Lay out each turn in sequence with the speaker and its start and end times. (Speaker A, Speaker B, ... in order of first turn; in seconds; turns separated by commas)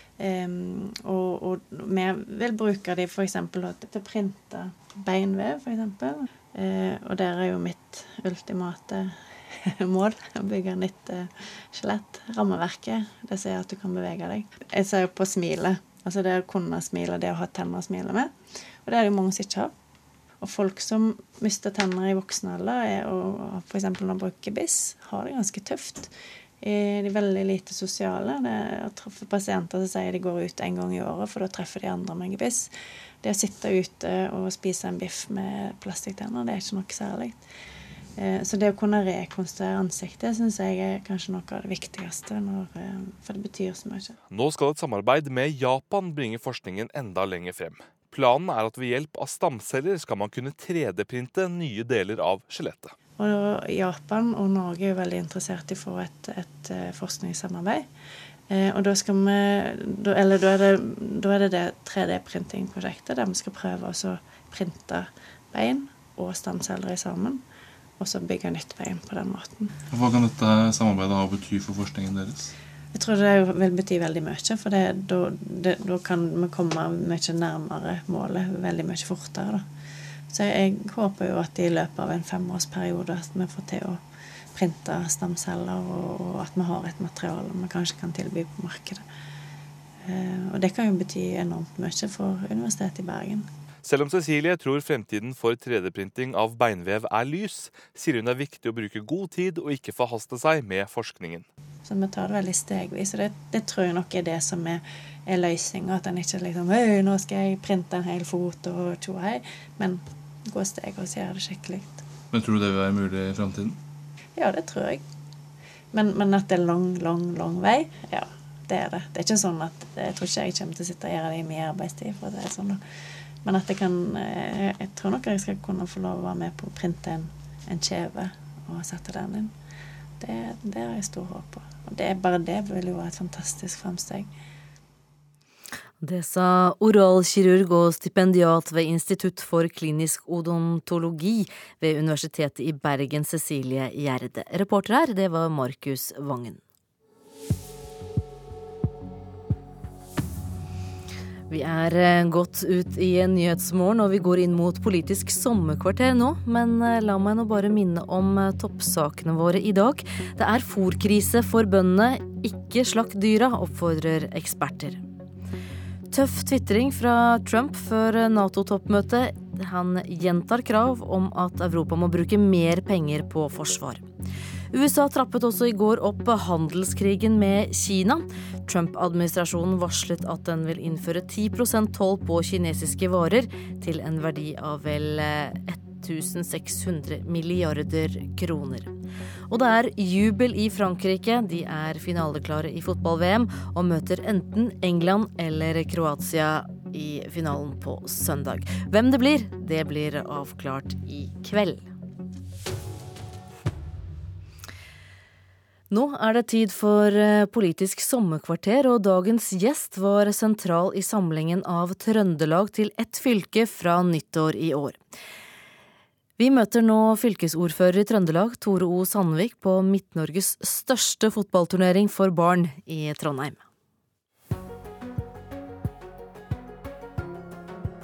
Speaker A: 0.2-9.1, Speaker A: 9.7-19.7, Speaker A: 20.4-32.7, Speaker A: 33.2-37.5, Speaker A: 38.2-44.2, Speaker B: 44.3-52.9, Speaker A: 53.2-57.9, Speaker A: 58.5-67.4, Speaker A: 68.0-69.7, Speaker C: 69.9-72.5, Speaker A: 72.9-79.7, Speaker A: 80.3-84.0, Speaker A: 84.5-89.0, Speaker A: 90.0-93.5, Speaker B: 93.8-101.5, Speaker A: 101.9-112.0, Speaker C: 112.3-113.8, Speaker A: 114.4-115.0, Speaker A: 115.9-122.8, Speaker A: 123.4-129.5, Speaker A: 130.2-134.3, Speaker D: 136.0-146.6, Speaker D: 151.5-165.0, Speaker D: 166.1-174.0, Speaker D: 174.7-188.9, Speaker D: 189.5-201.9, Speaker D: 205.9-215.0, Speaker D: 216.4-223.6